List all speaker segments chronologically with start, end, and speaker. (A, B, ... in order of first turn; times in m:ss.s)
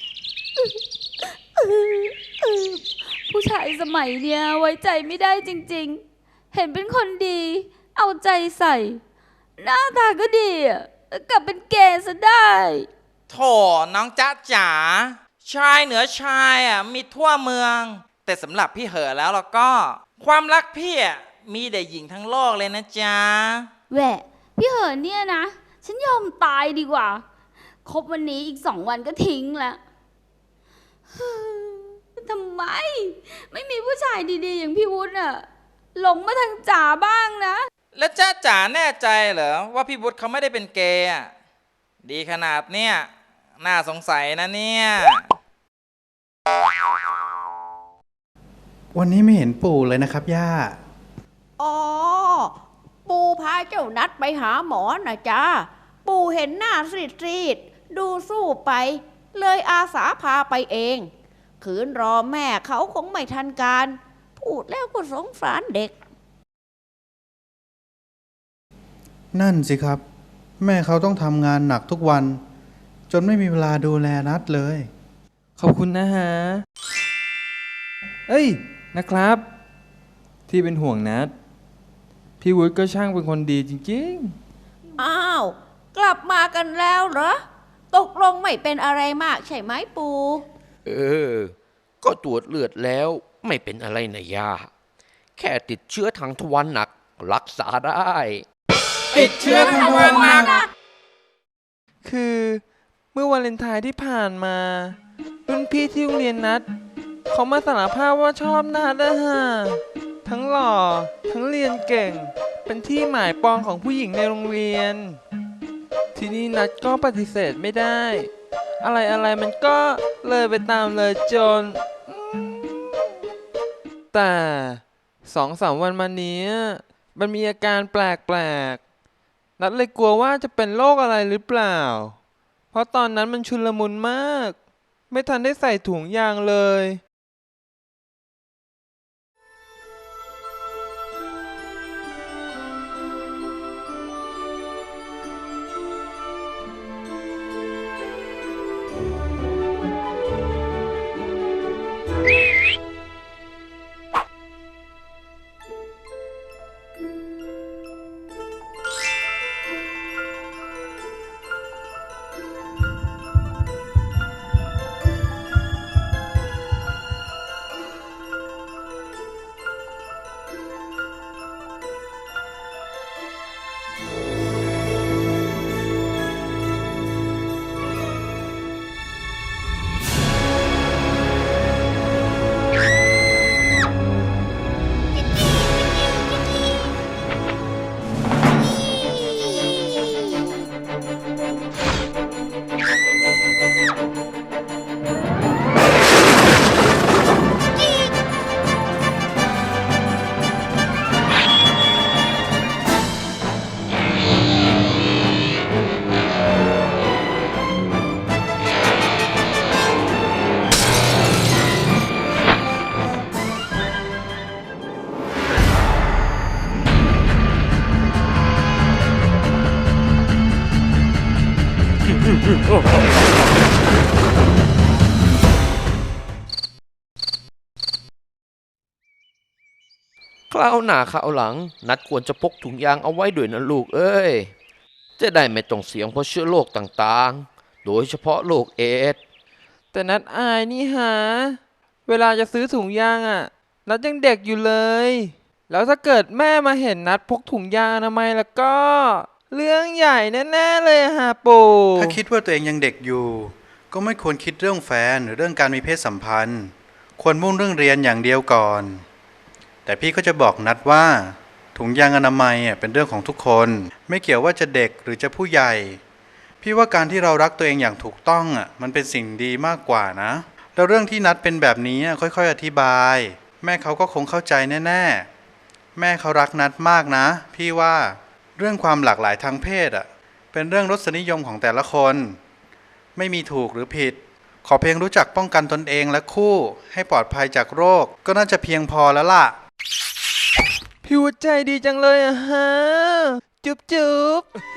0:01.6-0:09.0 A
0:09.6-0:12.9 A
0:13.3-0:23.7 B
0:23.9-0:27.2 A
0:27.8-0:29.8 A
0:31.1-0:37.6 A
0:37.9-0:41.3 B
0:42.0-0:43.1 B
0:43.6-0:45.2 B
0:48.9-0:50.8 C
0:51.6-0:52.5 D
0:53.0-1:06.0 D
1:09.3-1:10.0 C
1:10.6-1:12.4 C
1:13.1-1:14.9 C
1:15.6-1:16.6 E
1:18.3-1:19.4 E
1:20.5-1:21.3 E
1:22.4-1:24.3 E
1:25.0-1:30.4 D
1:30.8-1:34.7 F
1:35.4-1:38.4 F
1:39.1-1:40.4 E
1:39.4-1:40.6 D
1:42.0-1:42.6 E
1:43.1-1:45.0 E
1:45.5-1:46.6 E
1:47.3-1:55.2 E
1:56.1-1:58.3 E
1:58.8-2:03.0 E
2:04.1-2:08.8 E
2:09.6-2:12.2 E
2:12.7-2:14.6 E
2:15.1-2:17.0 E
3:50.5-3:54.5 F
3:55.2-3:59.2 F
3:59.9-4:12.2 E
4:12.0-4:19.0 C
4:19.8-4:26.0 C
4:26.6-4:35.3 C
4:36.0-4:42.4 C
4:43.2-4:49.6 C
4:51.0-4:54.5 E